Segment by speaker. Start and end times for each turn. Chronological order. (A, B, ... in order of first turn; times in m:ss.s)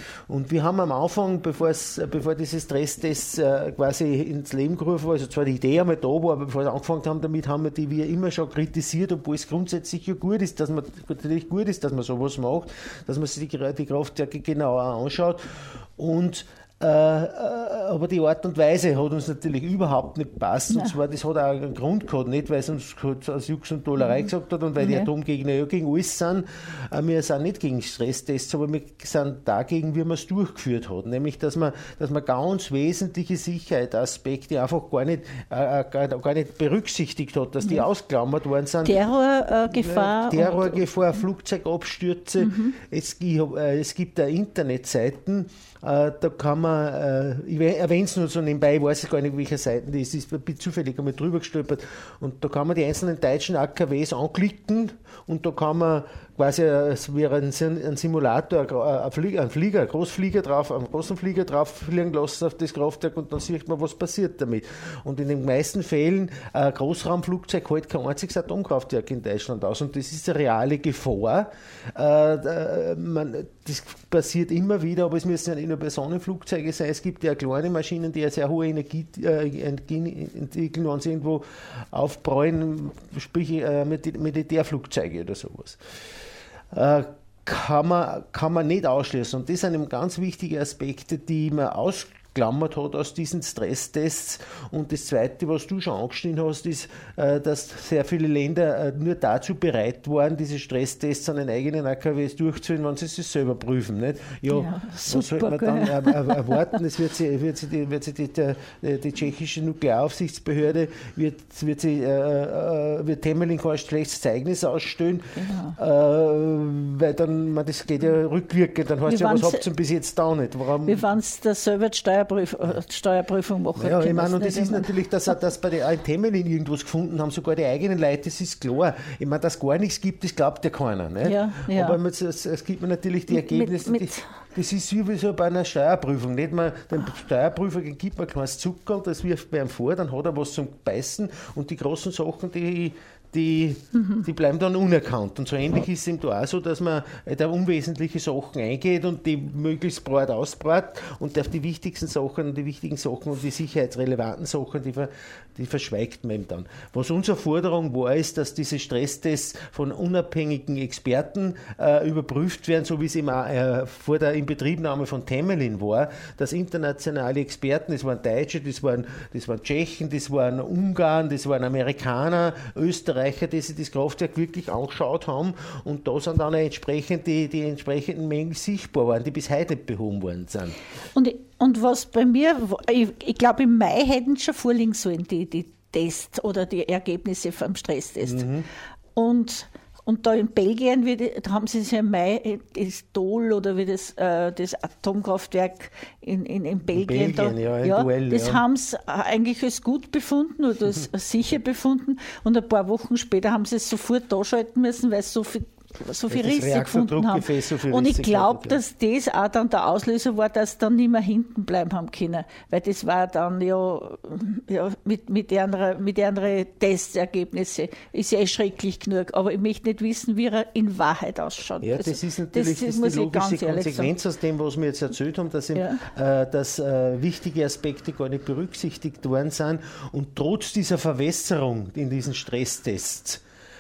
0:00.3-0:39.0 A
0:24.8-0:25.1 B
0:38.8-0:40.8 B
0:39.7-1:25.8 A
0:42.4-0:42.7 B
1:26.7-2:01.1 A
1:44.5-1:46.6 B
1:55.4-1:55.8 B
1:59.1-1:59.6 B
2:00.8-2:04.9 B
2:03.8-3:00.8 A
2:11.2-2:12.0 B
2:13.3-2:14.3 B
2:24.0-2:24.2 B
3:01.2-3:08.5 B
3:08.2-3:08.7 A
3:09.2-3:44.1 B
3:16.9-3:18.6 A
3:26.3-3:28.8 A
3:41.8-3:53.4 A
3:45.8-3:46.0 B